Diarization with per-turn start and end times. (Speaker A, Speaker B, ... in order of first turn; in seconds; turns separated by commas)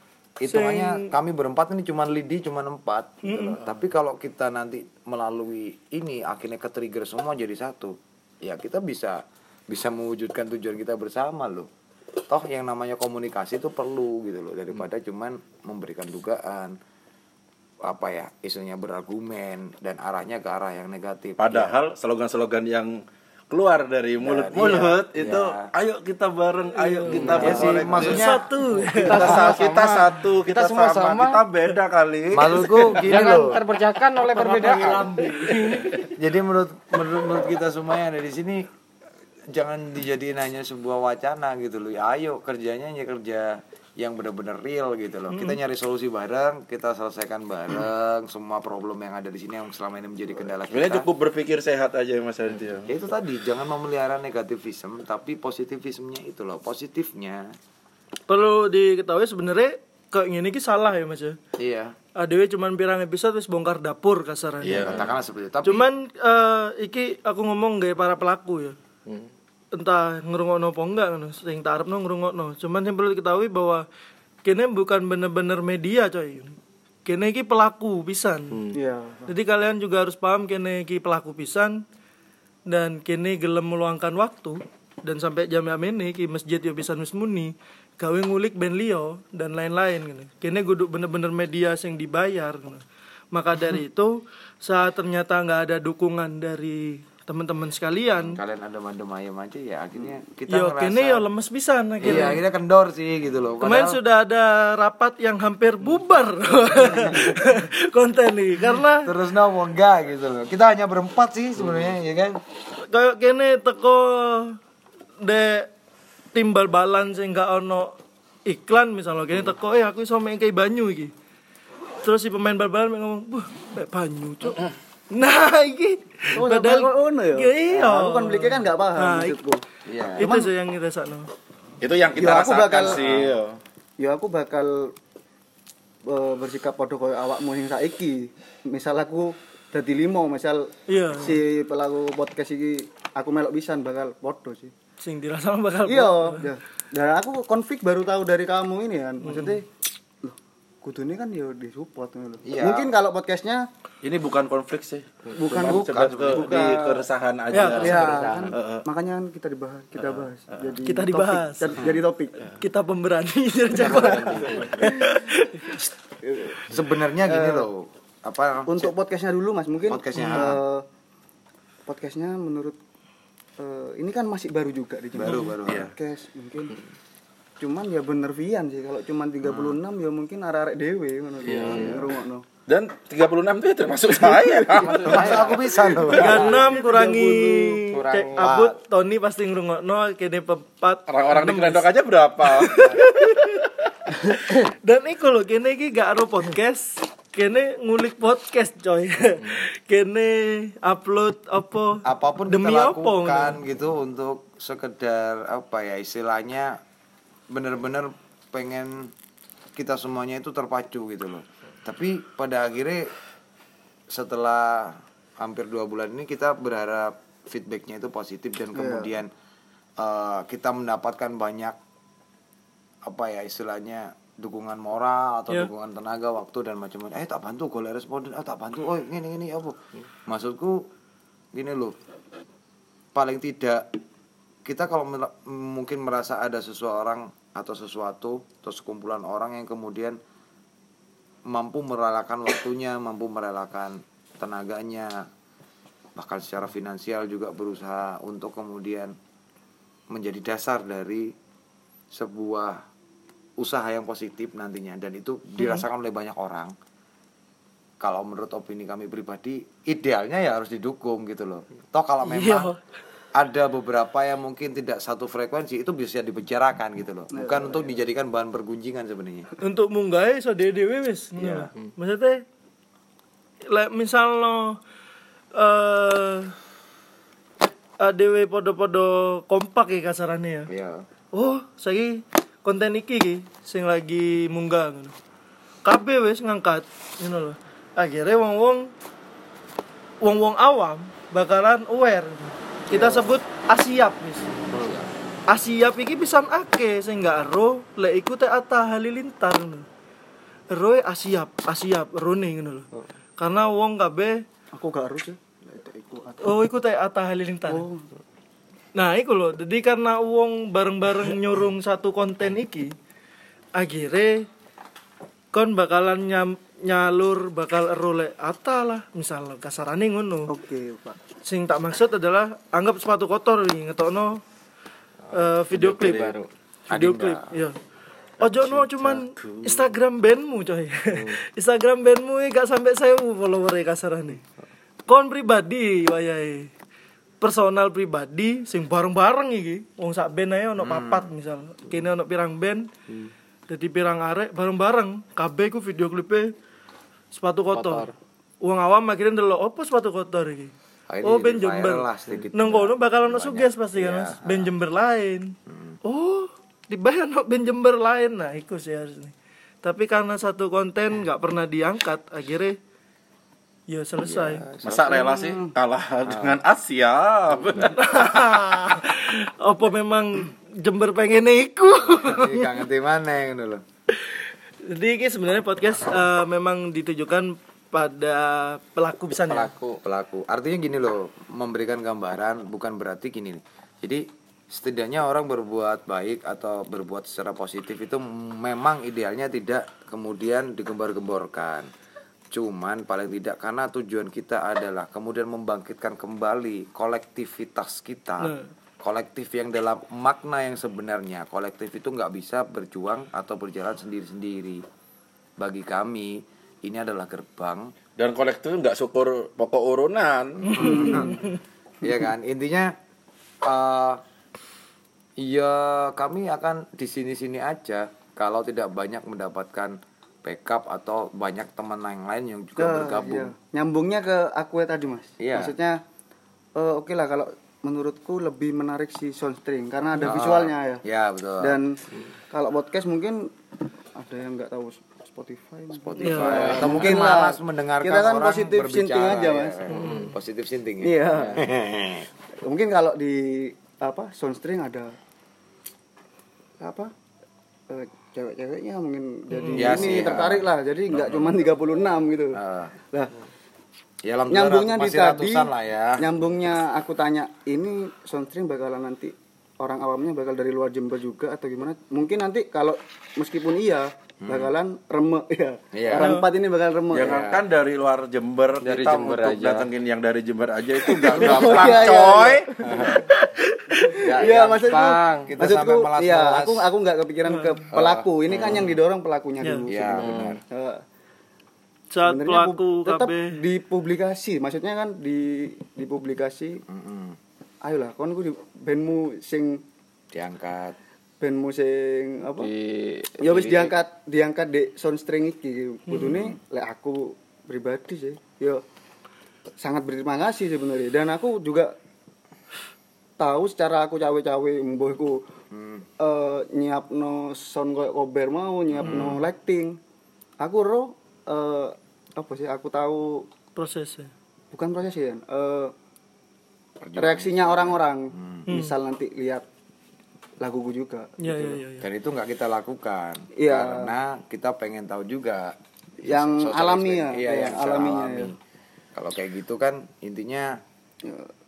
Speaker A: 0.4-11.7, Speaker B: 0.5-1.1, Speaker B: 3.2-3.6, Speaker A: 12.3-16.8, Speaker A: 17.8-21.7, Speaker C: 21.4-28.3, Speaker A: 24.2-25.7, Speaker B: 26.8-29.3, Speaker D: 27.1-27.8, Speaker A: 27.4-28.4, Speaker C: 28.9-33.1, Speaker A: 29.1-30.1, Speaker D: 29.2-29.9, Speaker D: 30.5-31.4, Speaker A: 32.3-33.6, Speaker D: 33.0-36.1, Speaker A: 34.1-35.4, Speaker A: 35.9-38.7, Speaker A: 39.5-51.1, Speaker B: 45.3-45.6, Speaker C: 50.7-52.9, Speaker A: 52.9-57.5, Speaker B: 58.3-61.4, Speaker A: 61.6-62.0, Speaker B: 62.2-65.0, Speaker C: 64.6-65.1, Speaker A: 64.7-65.8, Speaker B: 65.7-68.8, Speaker B: 69.7-73.8, Speaker B: 74.5-78.6, Speaker D: 78.5-78.8, Speaker E: 78.7-79.2, Speaker B: 79.3-81.8, Speaker B: 82.7-92.8, Speaker B: 93.3-98.4, Speaker A: 98.2-101.2, Speaker B: 100.5-102.4, Speaker A: 102.0-104.0, Speaker B: 103.6-109.1, Speaker A: 109.0-112.4, Speaker B: 112.9-114.6, Speaker B: 115.2-115.7, Speaker B: 116.3-117.9, Speaker B: 118.5-121.1, Speaker B: 122.0-124.6, Speaker B: 125.1-129.4, Speaker E: 126.3-129.6, Speaker A: 129.9-130.3, Speaker B: 130.2-131.3, Speaker E: 130.2-130.5, Speaker C: 131.8-133.6, Speaker E: 132.2-133.1, Speaker A: 132.9-133.3, Speaker E: 134.0-134.9, Speaker E: 136.1-144.7, Speaker B: 140.9-141.4, Speaker B: 145.0-146.5, Speaker E: 145.9-149.7, Speaker B: 149.2-149.6, Speaker E: 150.2-153.7, Speaker A: 152.4-152.9, Speaker C: 154.0-158.9, Speaker E: 155.3-162.5, Speaker A: 155.5-156.8, Speaker B: 157.5-158.0, Speaker A: 157.9-158.2, Speaker D: 158.0-158.5, Speaker B: 160.9-161.9, Speaker B: 162.4-165.8, Speaker A: 163.7-164.8, Speaker E: 163.8-164.7, Speaker E: 166.2-167.7, Speaker A: 166.6-168.9, Speaker E: 168.7-170.9, Speaker A: 169.9-170.6, Speaker E: 171.9-172.8, Speaker E: 173.6-176.8, Speaker A: 175.2-175.9, Speaker C: 175.7-175.9, Speaker E: 177.6-182.4, Speaker A: 179.5-179.8, Speaker C: 181.5-181.8, Speaker A: 181.6-182.0, Speaker C: 182.7-185.3, Speaker D: 184.8-188.5, Speaker A: 185.0-186.6, Speaker B: 186.1-191.9, Speaker A: 188.4-188.8, Speaker C: 191.1-193.1, Speaker B: 192.4-193.7, Speaker B: 194.3-203.6, Speaker A: 202.1-206.8, Speaker A: 207.5-209.1, Speaker A: 209.8-213.1, Speaker A: 214.1-219.3, Speaker E: 218.8-219.1, Speaker A: 220.0-221.8, Speaker A: 223.1-229.8, Speaker A: 230.3-230.9, Speaker A: 231.5-232.0, Speaker A: 233.2-233.9, Speaker A: 234.7-240.2, Speaker A: 241.5-245.3, Speaker A: 246.2-249.1, Speaker A: 250.1-251.3, Speaker A: 252.1-252.8, Speaker A: 253.6-256.7, Speaker A: 258.0-262.7, Speaker B: 262.2-262.8, Speaker A: 263.3-269.5, Speaker E: 267.3-268.0, Speaker B: 269.6-272.4, Speaker A: 271.4-271.7, Speaker B: 273.7-274.8, Speaker B: 275.5-276.5, Speaker B: 278.0-280.7, Speaker A: 280.7-281.1, Speaker B: 281.3-285.1, Speaker B: 285.9-288.9, Speaker B: 290.2-294.6, Speaker A: 294.7-295.1, Speaker B: 295.5-299.9, Speaker B: 300.7-302.9, Speaker B: 303.4-304.4, Speaker E: 304.7-306.6, Speaker B: 306.4-307.9, Speaker E: 307.7-308.1, Speaker B: 308.9-312.9, Speaker B: 313.8-314.4, Speaker B: 315.5-320.5, Speaker E: 320.5-321.2, Speaker B: 321.5-324.4, Speaker B: 325.3-326.3, Speaker D: 325.7-326.5, Speaker C: 326.0-326.4, Speaker A: 326.9-327.5, Speaker B: 326.9-327.8, Speaker B: 328.4-334.4, Speaker D: 328.6-329.2, Speaker C: 329.4-329.7, Speaker B: 335.1-336.7, Speaker B: 337.4-342.9, Speaker A: 340.8-341.3, Speaker B: 343.7-346.5, Speaker B: 347.3-348.1, Speaker D: 347.7-348.1, Speaker B: 348.6-350.7, Speaker A: 351.1-354.7, Speaker B: 351.2-362.8, Speaker A: 355.7-356.0, Speaker B: 363.9-364.6, Speaker A: 364.2-365.4, Speaker C: 364.8-368.7, Speaker E: 365.1-365.7, Speaker A: 366.2-366.6, Speaker B: 367.8-372.7, Speaker A: 372.2-373.8, Speaker B: 374.9-379.7, Speaker D: 379.4-380.0, Speaker A: 380.0-391.9, Speaker A: 392.5-404.8, Speaker B: 398.4-398.7, Speaker A: 405.6-407.9, Speaker C: 408.2-411.3, Speaker A: 410.7-411.4, Speaker B: 410.8-411.5, Speaker E: 410.8-411.3, Speaker A: 412.0-412.9, Speaker A: 413.6-414.2, Speaker A: 415.4-423.5, Speaker E: 422.8-426.0, Speaker A: 425.4-425.7, Speaker E: 426.8-431.0, Speaker A: 430.2-431.8, Speaker E: 431.6-432.0, Speaker E: 432.5-433.5, Speaker E: 434.2-440.1, Speaker A: 435.9-442.3, Speaker B: 436.2-436.7, Speaker D: 436.5-437.2, Speaker D: 439.9-440.4, Speaker B: 439.9-440.2, Speaker E: 441.0-441.6, Speaker D: 441.3-441.6, Speaker E: 442.6-445.2, Speaker E: 446.8-447.1, Speaker E: 447.9-452.6, Speaker B: 449.5-450.0, Speaker A: 449.7-450.7, Speaker A: 452.5-452.9, Speaker A: 454.2-456.2, Speaker E: 454.5-467.5, Speaker A: 464.4-464.7, Speaker A: 465.9-466.4, Speaker B: 466.2-466.5, Speaker C: 467.1-472.8, Speaker A: 467.2-467.6, Speaker D: 468.8-469.9, Speaker E: 471.3-473.2, Speaker A: 471.3-472.2, Speaker A: 472.8-473.3, Speaker E: 473.9-481.0, Speaker A: 474.2-476.9, Speaker D: 474.3-475.5, Speaker B: 477.5-477.8, Speaker A: 477.9-478.8, Speaker D: 478.5-479.0, Speaker A: 479.9-480.6, Speaker D: 480.2-480.6, Speaker B: 482.1-483.5, Speaker E: 482.2-486.8, Speaker A: 486.9-487.4, Speaker E: 487.8-489.8, Speaker A: 490.3-491.0, Speaker E: 491.4-492.7, Speaker D: 492.6-493.9, Speaker E: 493.4-498.8, Speaker A: 496.2-496.6, Speaker E: 499.8-501.9, Speaker E: 503.4-505.4, Speaker A: 505.7-506.1, Speaker E: 506.2-510.0, Speaker A: 508.9-509.4, Speaker E: 510.6-513.5, Speaker B: 513.8-514.3, Speaker E: 514.7-515.9, Speaker A: 517.0-518.7, Speaker E: 517.2-519.6, Speaker B: 518.7-518.9, Speaker E: 520.6-521.8, Speaker B: 521.4-522.1, Speaker A: 522.0-528.6, Speaker E: 523.6-524.1, Speaker E: 526.2-528.5, Speaker A: 529.1-530.8, Speaker E: 531.2-531.5